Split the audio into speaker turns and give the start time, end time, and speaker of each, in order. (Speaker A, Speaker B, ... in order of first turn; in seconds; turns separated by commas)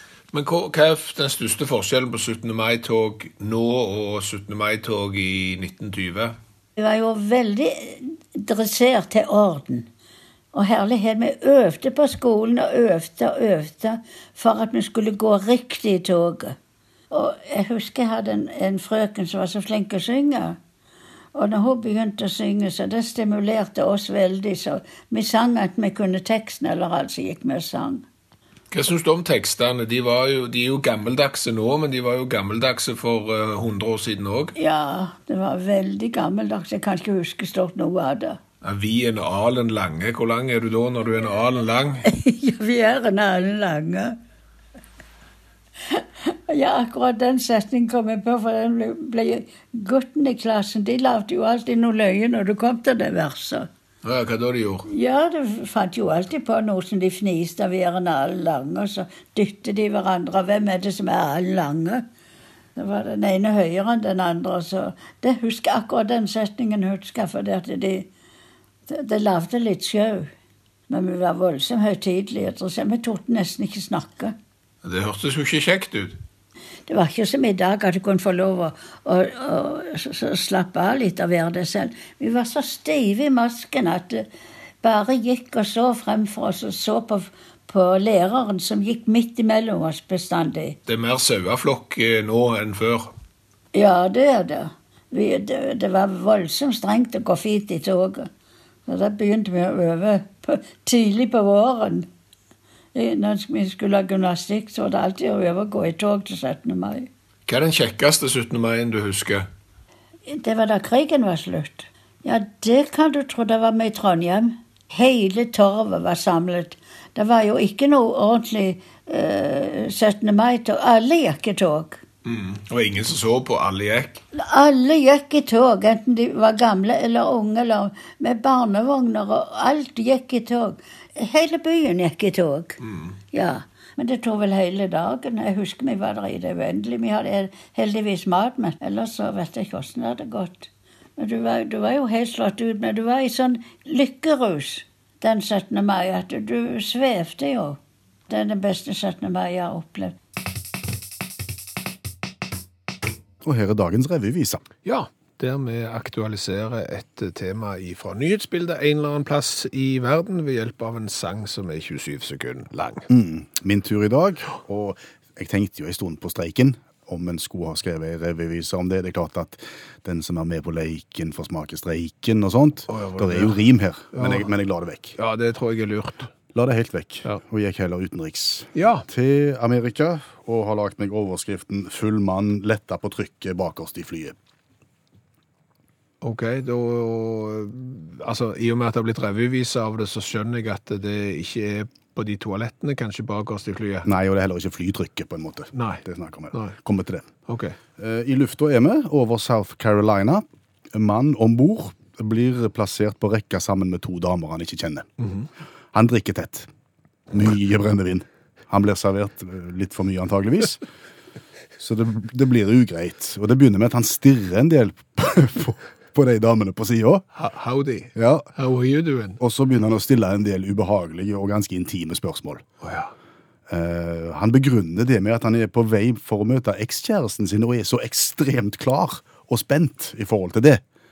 Speaker A: 0.3-6.3, Speaker B: 6.8-9.9, Speaker B: 10.5-16.6, Speaker B: 17.1-20.6, Speaker B: 21.3-28.0, Speaker A: 28.7-34.5, Speaker B: 34.5-38.4, Speaker A: 38.6-42.0, Speaker B: 42.0-44.2, Speaker B: 45.9-53.7, Speaker A: 54.0-54.9, Speaker B: 54.9-62.0, Speaker B: 62.8-68.1, Speaker B: 68.9-70.3, Speaker B: 70.9-74.3, Speaker A: 74.8-76.2, Speaker B: 76.9-84.2, Speaker B: 84.8-90.8, Speaker A: 90.9-93.1, Speaker B: 93.7-98.3, Speaker B: 98.8-102.1, Speaker B: 102.9-107.1, Speaker A: 107.5-109.5, Speaker B: 110.3-122.0, Speaker A: 122.2-124.2, Speaker B: 124.3-132.8, Speaker B: 133.3-150.2, Speaker C: 153.4-154.6, Speaker A: 154.8-163.1, Speaker C: 163.1-175.2, Speaker A: 172.9-173.6, Speaker A: 174.1-174.5, Speaker A: 175.2-176.3, Speaker C: 176.5-184.3, Speaker A: 178.7-179.1, Speaker A: 186.2-194.1, Speaker C: 194.0-197.3, Speaker A: 195.7-196.0, Speaker A: 197.4-197.8, Speaker C: 198.0-205.1, Speaker A: 205.2-205.5, Speaker C: 205.9-206.7, Speaker C: 207.3-210.8, Speaker C: 211.8-217.2, Speaker A: 217.3-219.4, Speaker C: 218.2-218.5, Speaker C: 219.4-222.6, Speaker A: 222.8-223.1, Speaker C: 223.7-230.8